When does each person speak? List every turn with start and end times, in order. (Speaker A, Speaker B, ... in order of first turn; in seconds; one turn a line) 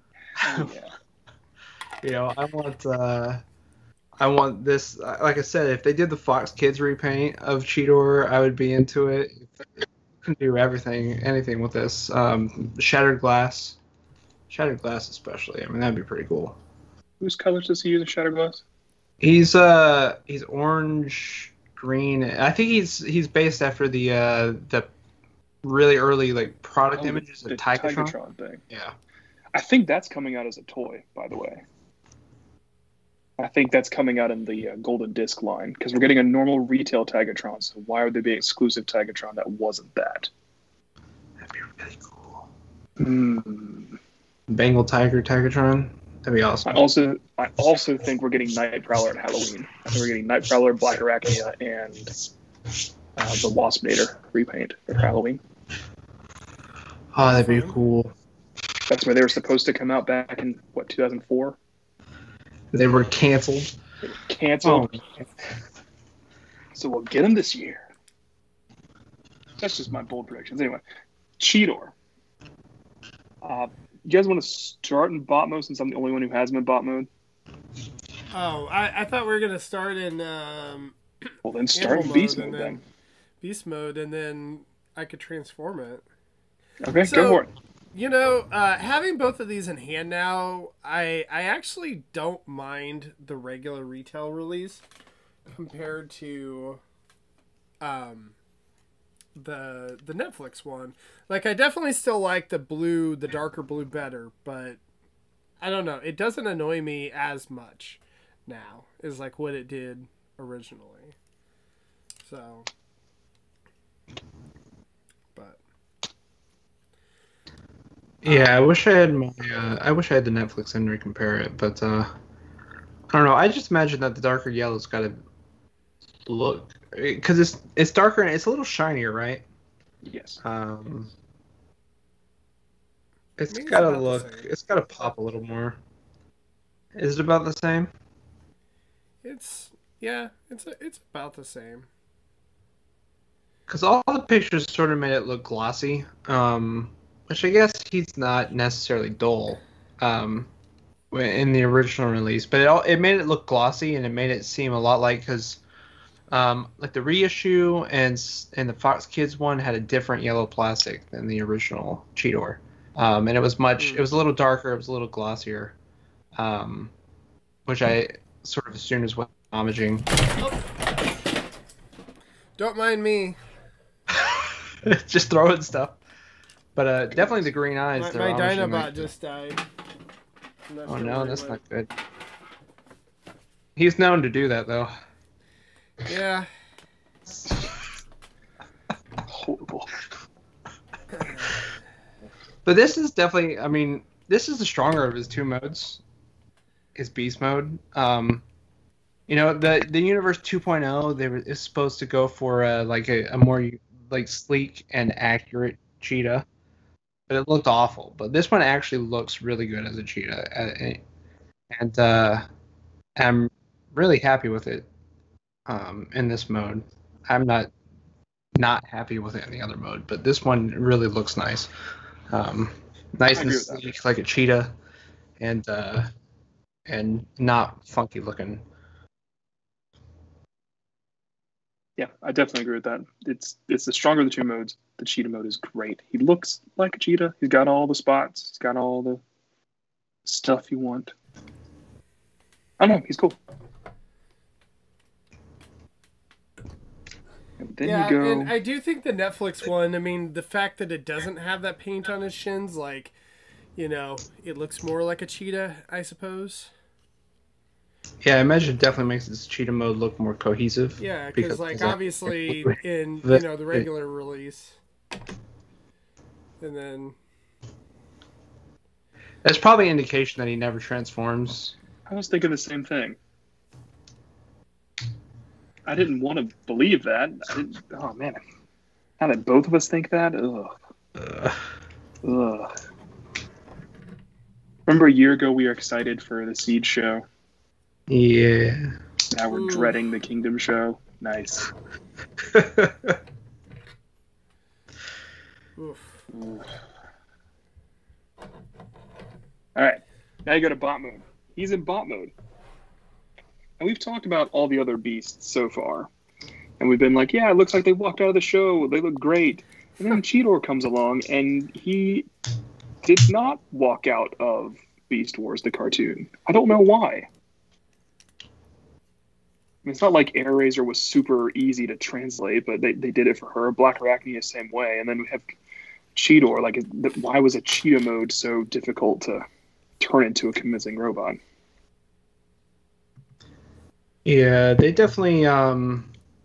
Speaker A: 0.4-0.7
Speaker B: 0.4-0.9
Speaker A: 2.0-3.4
Speaker A: 4.2-13.8
Speaker A: 14.5-16.6
Speaker B: 17.2-18.6
Speaker A: 19.2-24.9
Speaker A: 25.6-28.1
Speaker B: 27.0-28.6
Speaker A: 28.7-29.0
Speaker B: 29.5-31.6
Speaker B: 33.4-40.3
Speaker A: 41.4-42.5
Speaker B: 43.0-44.0
Speaker A: 44.5-46.8
Speaker B: 46.7-52.1
Speaker B: 53.2-55.4
Speaker A: 57.1-58.1
Speaker C: 57.2-57.8
Speaker B: 58.9-61.6
Speaker A: 62.7-63.7
Speaker B: 64.0-64.9
Speaker A: 64.6-65.0
Speaker B: 66.8-67.8
Speaker B: 69.6-70.8
Speaker B: 71.4-71.9
Speaker B: 73.4-77.1
Speaker C: 78.3-82.8
Speaker B: 81.5-82.8
Speaker C: 83.4-86.0
Speaker B: 86.8-87.5
Speaker C: 87.0-94.8
Speaker C: 95.5-96.8
Speaker C: 97.8-98.3
Speaker C: 99.3-104.8
Speaker C: 105.6-111.2
Speaker C: 112.2-112.7
Speaker C: 115.3-115.6
Speaker A: 118.2-122.1
Speaker C: 118.3-118.6
Speaker A: 123.1-125.2
Speaker A: 126.3-129.4
Speaker B: 130.0-130.4
Speaker A: 130.4-131.1
Speaker A: 133.4-135.8
Speaker C: 133.5-134.5
Speaker A: 136.9-137.9
Speaker C: 139.2-141.9
Speaker A: 143.7-150.5
Speaker A: 151.1-155.6
Speaker A: 156.3-165.8
Speaker C: 163.8-164.1
Speaker A: 166.4-166.9
Speaker A: 167.7-170.1
Speaker C: 172.6-173.4
Speaker A: 174.1-176.0
Speaker A: 176.8-179.1
Speaker C: 178.0-179.6
Speaker C: 180.7-181.6
Speaker A: 180.9-181.9
Speaker A: 183.8-184.9
Speaker C: 186.1-186.5
Speaker B: 189.3-189.9
Speaker C: 191.2-191.7
Speaker A: 192.7-196.0
Speaker A: 196.9-198.4
Speaker A: 199.3-206.5
Speaker A: 207.3-211.0
Speaker A: 211.7-212.5
Speaker A: 213.2-214.9
Speaker A: 215.7-217.7
Speaker A: 218.6-221.7
Speaker A: 222.3-224.7
Speaker B: 223.3-223.9
Speaker A: 225.4-226.1
Speaker A: 226.9-228.6
Speaker B: 232.0-239.2
Speaker B: 240.3-241.1
Speaker B: 242.8-243.4
Speaker B: 247.6-248.5
Speaker C: 247.8-253.1
Speaker C: 253.8-256.7
Speaker A: 258.2-263.9
Speaker C: 261.0-264.8
Speaker C: 266.6-267.2
Speaker A: 269.4-271.8
Speaker B: 272.1-273.2
Speaker B: 275.9-278.4
Speaker B: 279.2-280.8
Speaker A: 281.2-281.6
Speaker B: 282.2-282.7
Speaker B: 284.9-287.2
Speaker A: 288.1-288.9
Speaker B: 289.3-291.7
Speaker C: 289.5-290.0
Speaker A: 292.4-293.2
Speaker C: 295.8-296.2
Speaker B: 296.3-296.7
Speaker B: 299.8-302.3
Speaker B: 303.8-306.1
Speaker B: 306.8-312.3
Speaker B: 313.0-317.3
Speaker B: 319.9-325.4
Speaker B: 326.1-329.4
Speaker B: 330.0-331.4
Speaker A: 334.2-336.1